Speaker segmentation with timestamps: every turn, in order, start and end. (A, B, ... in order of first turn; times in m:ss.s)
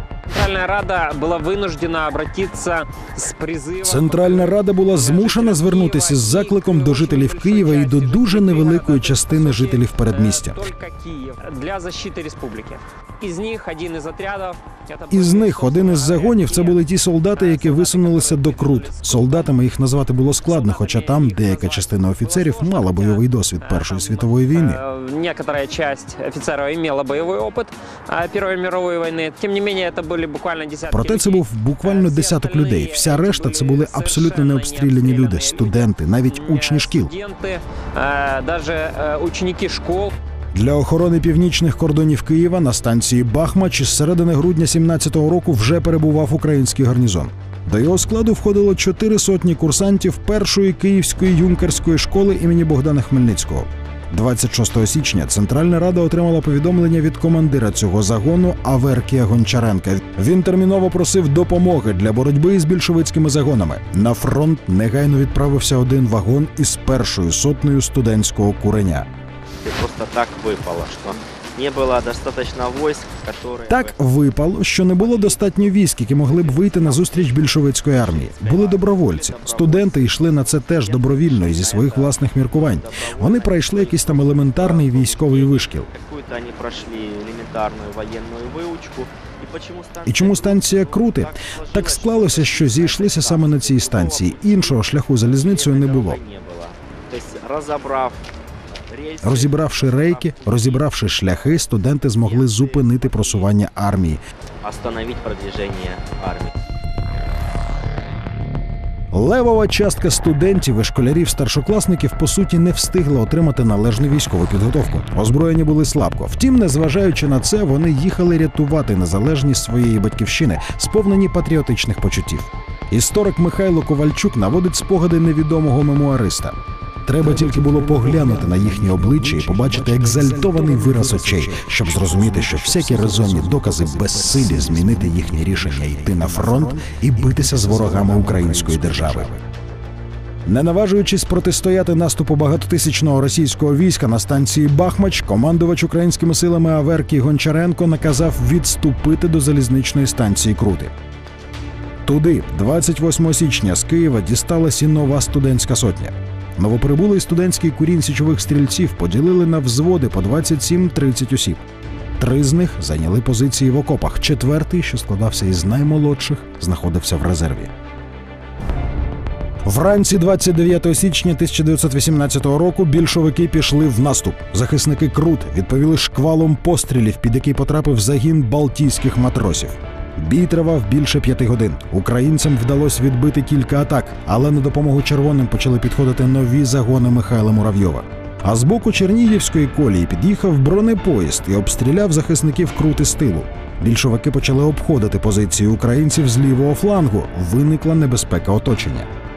0:00.3-0:19.5 A
0:03.8-0:10.6 B
0:15.1-0:24.8 B
0:20.4-0:40.1 A
0:30.9-0:37.1 B
0:40.5-1:09.1 B
1:09.6-1:14.0 C
1:13.7-1:25.9 B
1:15.0-1:43.5 C
1:30.0-1:36.2 B
1:39.2-1:44.2 B
1:44.6-1:46.5 C
1:49.1-2:19.4 B
2:20.4-2:30.9 B
2:32.0-2:41.6 B
2:42.2-2:47.7 B
2:49.6-3:19.1 B